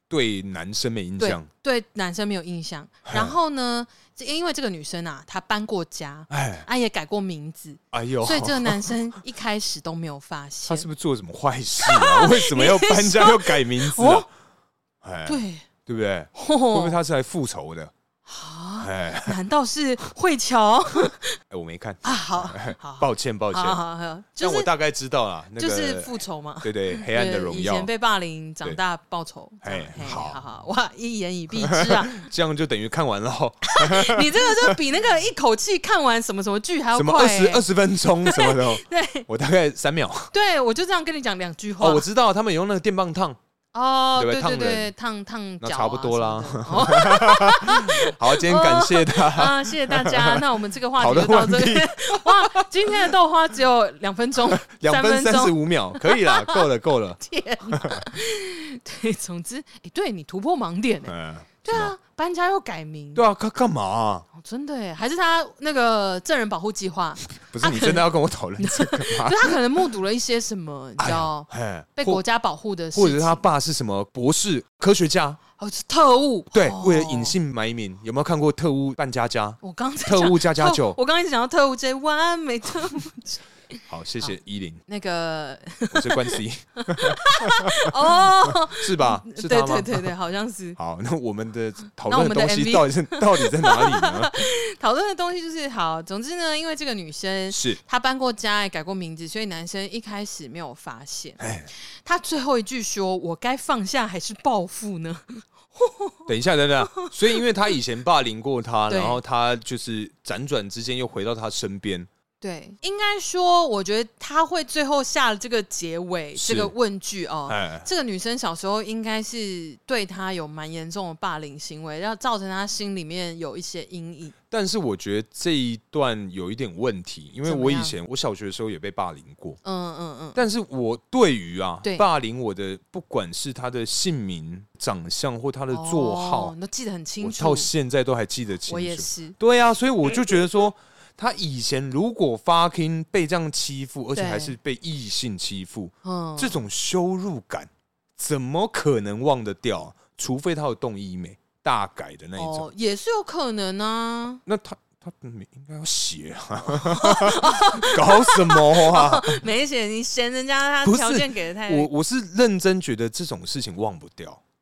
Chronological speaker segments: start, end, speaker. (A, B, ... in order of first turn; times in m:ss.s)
0:00.1-0:01.5 A
0:01.2-0:10.9 B
0:03.1-0:03.4 A
0:06.3-0:06.7 A
0:07.9-0:09.0 A
0:10.7-0:14.3 A
0:11.8-0:14.3 B
0:15.0-0:17.9 A
0:15.2-0:15.6 B
0:16.4-0:17.0 B
0:18.2-0:21.4 B
0:18.8-0:19.4 A
0:21.5-0:23.8 A
0:22.0-0:24.7 B
0:24.4-0:27.9 A
0:25.6-0:32.2 B
0:29.6-0:30.4 A
0:31.6-0:34.8 A
0:33.7-0:37.7 B
0:36.9-0:40.3 A
0:38.2-0:39.3 B
0:40.3-0:42.0 B
0:41.8-0:43.4 A
0:43.7-0:56.6 B
0:44.1-0:44.9 A
0:45.6-0:50.4 A
0:51.0-0:53.1 A
0:54.5-0:58.0 A
0:57.2-1:03.2 B
1:01.1-1:01.9 A
1:03.1-1:04.2 A
1:04.3-1:08.0 B
1:07.4-1:09.6 A
1:08.6-1:13.4 B
1:11.0-1:12.2 A
1:12.9-1:15.4 A
1:15.6-1:17.4 B
1:16.5-1:21.0 A
1:19.6-1:24.3 B
1:23.9-1:24.8 A
1:24.9-1:30.8 B
1:25.9-1:30.1 A
1:30.8-1:34.4 A
1:32.1-1:41.4 B
1:37.5-1:37.8 A
1:41.4-1:41.7 A
1:41.9-1:46.2 B
1:46.3-1:52.1 A
1:46.9-1:47.4 B
1:48.9-1:49.2 B
1:52.4-2:04.3 B
1:56.4-1:56.7 A
1:57.5-1:57.9 A
2:04.5-2:09.6 A
2:07.4-2:07.9 B
2:09.6-2:10.4 B
2:10.3-2:16.5 A
2:15.7-2:17.7 B
2:17.2-2:32.7 A
2:18.7-2:19.4 B
2:24.1-2:24.6 B
2:26.0-2:26.6 B
2:32.4-2:34.4 B
2:34.4-2:39.4 A
2:36.8-2:41.9 B
2:40.8-2:44.4 A